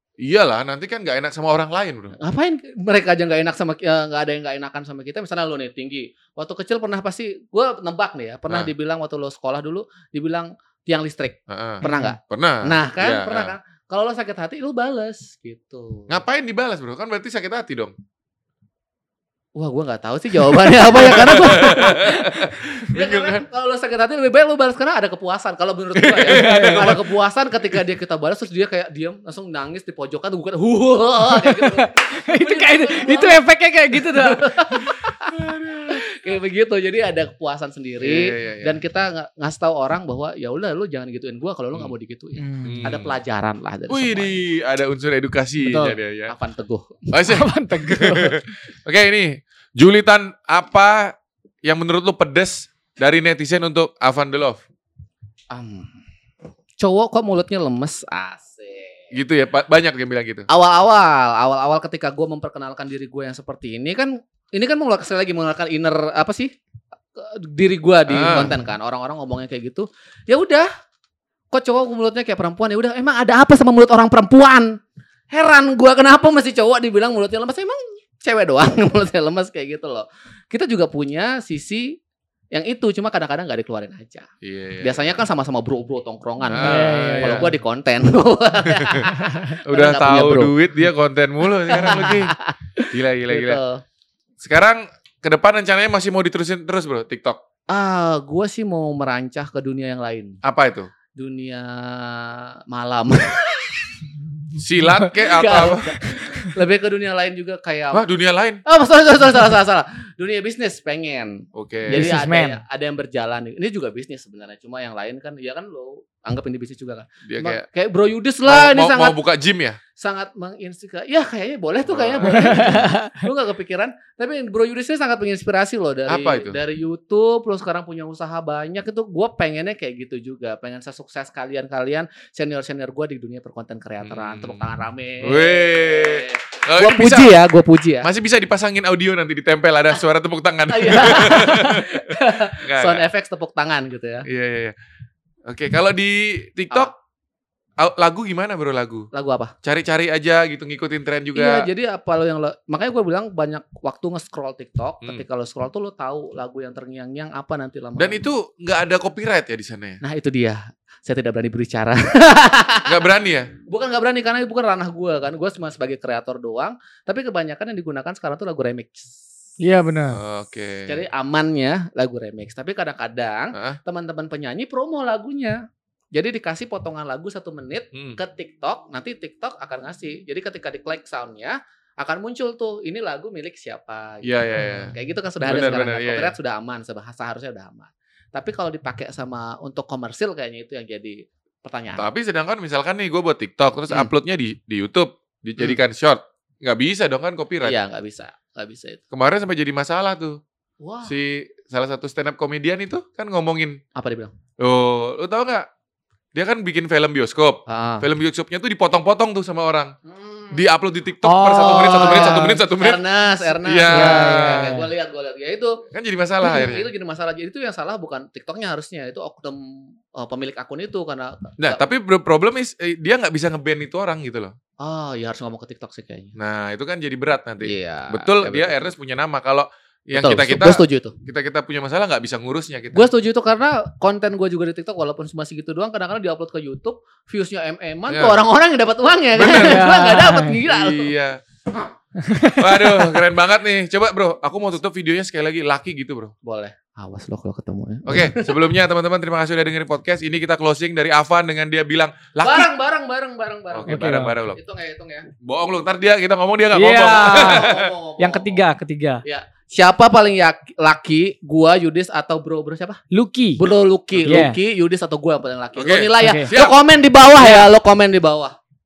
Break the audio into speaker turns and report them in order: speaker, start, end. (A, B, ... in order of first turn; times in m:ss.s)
0:00.2-0:02.1 A
0:02.2-0:16.2 B
0:11.5-0:13.5 A
0:11.8-0:12.1 C
0:16.1-0:17.9 A
0:19.5-0:35.3 B
0:20.8-0:23.4 A
0:25.9-0:27.0 A
0:26.3-0:26.9 C
0:31.3-0:34.7 C
0:35.2-0:36.0 A
0:35.9-0:44.4 B
0:38.0-0:38.8 A
0:42.4-0:42.8 C
0:42.6-0:43.1 A
0:43.9-0:46.3 A
0:45.6-0:46.0 C
0:46.3-0:47.2 B
0:47.1-0:54.6 A
0:47.3-0:48.4 C
0:55.5-0:56.0 B
0:56.8-0:59.1 B
0:59.1-1:00.5 A
1:00.5-1:06.5 B
1:07.1-1:10.7 B
1:08.1-1:08.5 A
1:11.5-1:14.8 B
1:15.3-1:22.0 B
1:22.5-1:24.3 B
1:24.4-1:25.1 A
1:24.8-1:30.5 B
1:26.5-1:27.5 A
1:26.6-1:27.5 C
1:28.7-1:32.4 A
1:31.7-1:33.8 B
1:32.9-1:33.6 A
1:34.4-1:37.4 A
1:37.7-1:40.4 B
1:40.4-1:40.9 A
1:41.1-1:44.0 B
1:44.5-1:46.3 A
1:45.0-1:48.0 B
1:47.9-1:48.6 A
1:48.6-1:59.2 B
1:51.5-1:52.2 A
1:51.9-1:52.6 C
1:57.2-1:57.6 A
1:58.4-1:59.8 A
2:00.0-2:18.1 B
2:01.9-2:02.8 A
2:02.3-2:03.2 C
2:06.1-2:06.6 A
2:14.0-2:14.6 A
2:15.2-2:17.4 A
2:18.0-2:23.0 A
2:20.7-2:24.2 B
2:24.2-2:24.7 A
2:25.5-2:26.9 A
2:27.8-2:29.1 A
2:29.1-2:29.5 B
2:29.6-2:31.7 A
2:31.3-2:38.2 B
2:38.0-2:40.0 A
2:40.0-2:43.0 B
2:42.8-2:43.5 A
2:43.6-2:49.2 B
2:49.6-2:50.2 C
2:50.1-2:51.0 A
2:50.8-2:55.6 B
2:56.1-3:12.0 B
3:04.2-3:06.3 A
3:12.0-3:17.8 A
3:17.6-3:19.0 B
3:19.1-3:20.4 A
3:20.8-3:21.1 B
3:21.0-3:23.8 A
3:23.9-3:24.3 B
3:24.6-3:25.7 A
3:26.3-3:29.9 A
3:27.7-3:28.0 B
3:30.0-3:30.6 B
3:30.5-3:34.7 A
3:31.2-3:32.6 C
3:31.6-3:35.8 B
3:33.9-3:34.9 C
3:35.9-3:36.9 A
3:36.4-3:41.8 B
3:41.6-3:44.5 A
3:44.8-3:46.3 B
3:46.4-3:53.1 A
3:47.6-3:48.8 B
3:50.1-3:51.1 B
3:52.9-4:01.1 B
3:58.1-3:58.4 A
3:59.3-3:59.9 A
3:59.5-4:00.6 C
4:00.6-4:01.4 A
4:02.2-4:03.1 C
4:02.4-4:06.3 A
4:06.4-4:08.8 B
4:08.1-4:12.7 A
4:12.4-4:15.3 B
4:13.7-4:14.6 A
4:13.9-4:14.3 C
4:15.4-4:17.9 A
4:16.7-4:19.2 C
4:17.1-4:18.6 B
4:19.2-4:23.0 B
4:23.1-4:23.6 C
4:23.5-4:28.6 B
4:24.2-4:24.6 C
4:25.7-4:26.8 A
4:26.2-4:26.5 C
4:27.4-4:27.7 C